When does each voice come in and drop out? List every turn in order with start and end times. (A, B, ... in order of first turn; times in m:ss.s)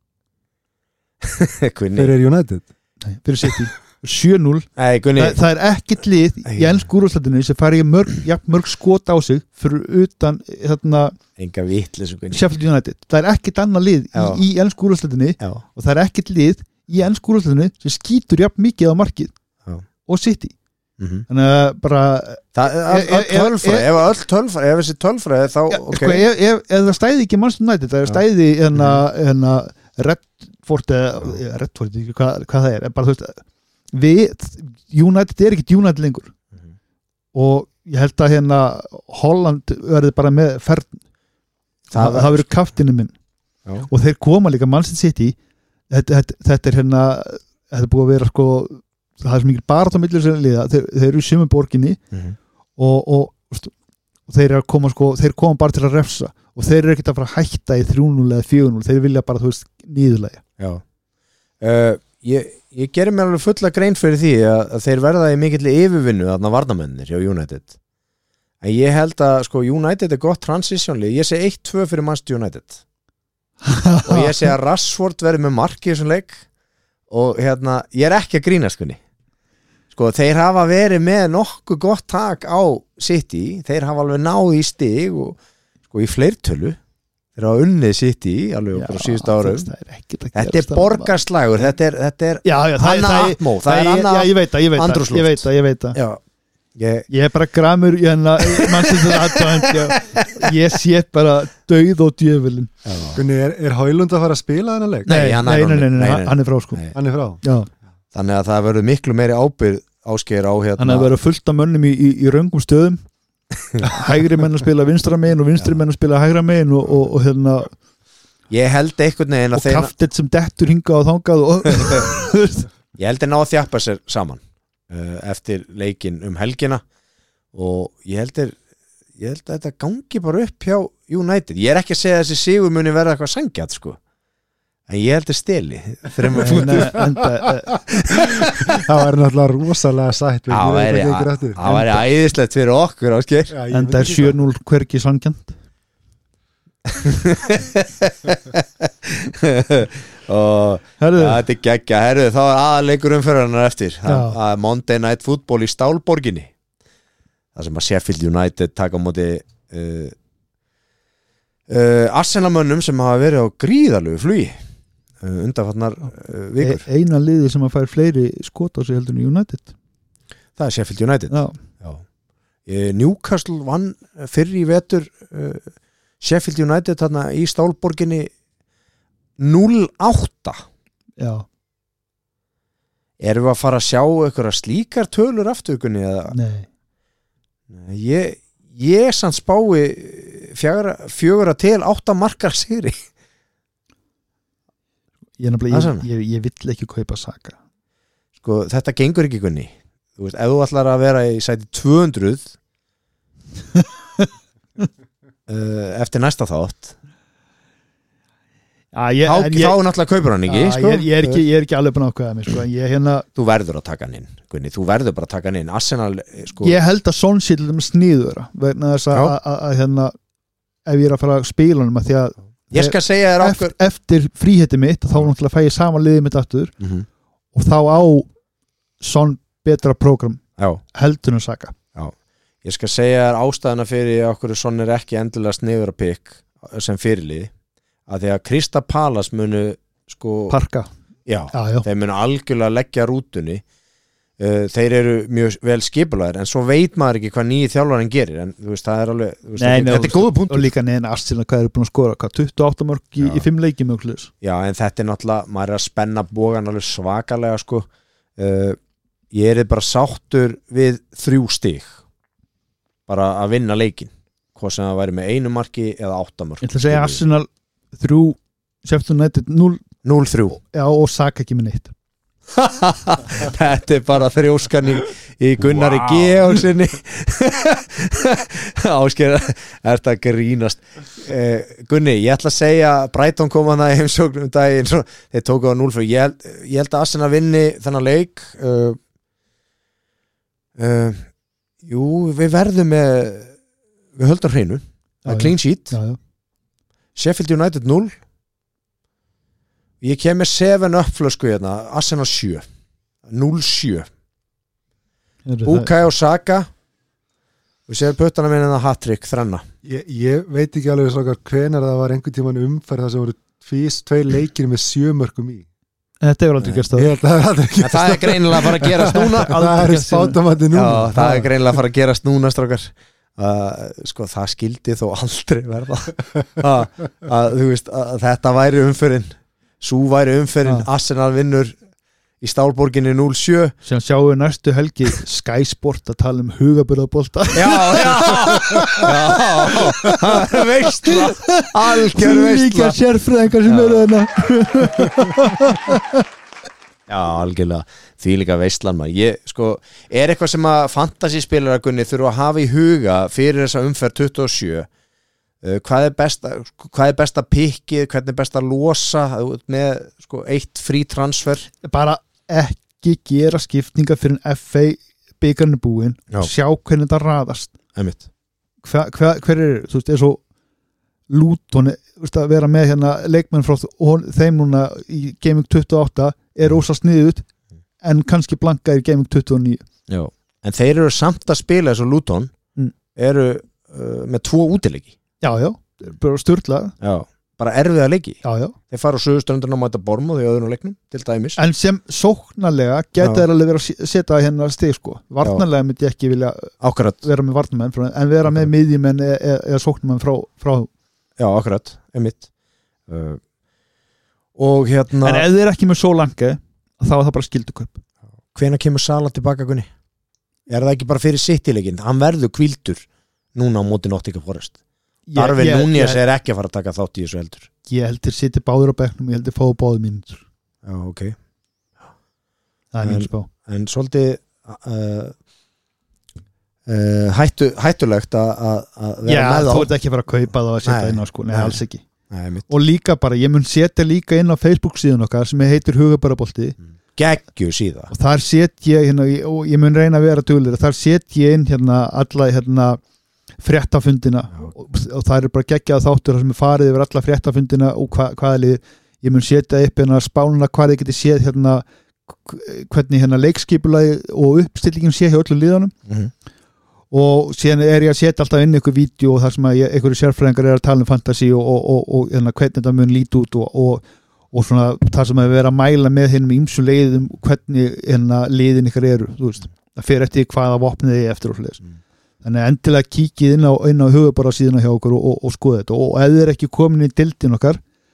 0:01.2-0:02.2 A
0:02.0-0:02.7 B
0:03.0-0:11.2 C
0:04.8-0:05.4 A
0:06.5-0:06.8 A
0:11.4-0:12.4 A
0:12.3-0:19.3 C
0:14.1-0:14.4 A
0:20.1-0:20.6 C
0:21.0-0:21.3 A
0:21.3-0:24.0 C
0:22.6-0:26.2 A
0:25.7-0:33.4 C
0:28.8-0:29.0 A
0:33.9-0:36.3 C
0:37.3-0:41.0 C
0:41.9-0:42.5 A
0:41.9-0:43.1 C
0:43.9-0:45.4 C
0:45.9-0:52.0 C
0:52.8-0:53.7 C
0:54.3-1:00.4 C
1:00.6-1:00.8 A
1:01.6-1:07.8 A
1:08.6-1:12.8 A
1:13.6-1:14.5 C
1:14.1-1:16.4 A
1:17.1-1:19.0 A
1:19.9-1:26.8 A
1:27.4-1:29.7 A
1:28.7-1:31.1 C
1:30.4-1:36.2 A
1:32.4-1:36.0 C
1:36.8-1:37.1 A
1:37.1-1:42.7 C
1:38.5-1:40.3 A
1:42.8-1:43.2 A
1:43.1-1:45.1 B
1:45.0-1:47.0 A
1:45.1-1:46.8 C
1:46.9-1:47.4 B
1:47.4-1:47.7 C
1:48.1-1:51.1 A
1:50.8-1:53.0 C
1:53.8-1:57.7 C
1:58.5-1:59.9 A
1:59.5-2:02.7 C
2:01.7-2:02.1 A
2:03.0-2:06.8 A
2:07.5-2:08.6 A
2:09.2-2:14.0 A
2:14.9-2:17.1 A
2:16.4-2:17.8 C
2:16.4-2:17.1 B
2:17.7-2:18.6 A
2:18.4-2:21.6 B
2:20.5-2:23.5 A
2:21.6-2:21.9 C
2:23.5-2:24.4 B
2:23.7-2:25.6 C
2:26.9-2:36.5 A
2:31.0-2:31.4 C
2:34.0-2:34.4 C
2:37.6-2:40.2 A
2:41.7-2:44.6 A
2:45.2-2:46.9 A
2:46.6-2:49.7 C
2:50.6-2:52.0 A
2:51.3-2:51.6 C
2:52.7-2:58.3 A
2:59.4-3:00.6 A
3:01.2-3:01.5 C
3:03.2-3:06.4 A
3:06.3-3:06.7 C
3:07.7-3:13.0 A
3:15.4-3:17.6 C
3:15.7-3:16.1 A
3:18.4-3:22.5 A
3:23.8-3:24.3 C
3:25.5-3:27.0 A
3:28.9-3:29.8 C
3:29.3-3:31.4 A
3:30.5-3:33.3 C
3:33.4-3:36.8 A
3:36.6-3:40.1 C
3:40.9-3:46.8 C
3:42.7-3:43.7 A
3:46.8-3:47.1 A
3:47.5-3:48.3 C
3:49.0-3:51.8 C
3:50.6-3:50.8 A
3:52.0-3:57.5 A
3:58.1-4:00.6 A
4:00.5-4:00.9 C
4:01.3-4:03.6 A
4:01.5-4:01.9 C
4:04.4-4:10.7 A
4:09.6-4:14.3 C
4:14.4-4:18.8 A
4:19.3-4:22.0 A
4:23.1-4:27.2 A
4:26.6-4:29.8 C
4:30.0-4:30.6 A
4:30.5-4:31.9 C
4:32.5-4:49.0 A
4:50.8-4:51.3 A
4:51.8-4:53.6 A
4:54.2-4:56.0 A
4:55.2-4:56.2 C
4:57.2-4:58.2 A
5:00.0-5:02.6 A
5:03.3-5:04.1 A
5:05.4-5:05.9 C
5:05.6-5:06.7 A
5:07.9-5:09.6 A
5:09.8-5:15.7 B
5:16.2-5:17.1 C
5:16.9-5:21.5 B
5:17.8-5:19.6 A
5:19.4-5:20.4 C
5:20.7-5:31.8 A
5:32.4-5:33.8 A
5:33.8-5:46.2 C
5:37.6-5:43.0 A
5:43.6-5:44.1 A
5:47.1-5:54.9 A
5:55.6-6:01.7 A
6:01.8-6:07.8 C
6:07.9-6:08.2 A
6:08.8-6:10.4 C
6:11.3-6:17.5 C
6:18.0-6:19.8 C
6:20.1-6:22.5 A
6:23.2-6:25.2 A
6:25.4-6:26.9 C
6:27.0-6:31.6 A
6:28.4-6:28.8 C
6:31.6-6:40.9 C
6:36.8-6:37.2 A
6:41.4-6:42.5 A
6:43.1-6:43.4 A
6:44.6-6:45.5 A
6:45.2-6:48.0 C
6:48.5-6:49.9 A
6:50.7-6:54.8 A
6:55.3-6:56.2 C
6:55.4-6:57.7 A
6:57.9-7:00.4 C
7:00.8-7:01.4 A
7:02.9-7:03.5 C
7:03.0-7:05.4 A
7:06.9-7:09.9 A
7:09.3-7:12.0 C
7:10.8-7:11.8 A
7:12.3-7:12.7 A
7:12.7-7:16.8 C
7:17.0-7:18.1 A
7:18.1-7:23.0 C
7:23.6-7:35.9 C
7:37.1-7:51.8 C
7:52.4-7:57.8 C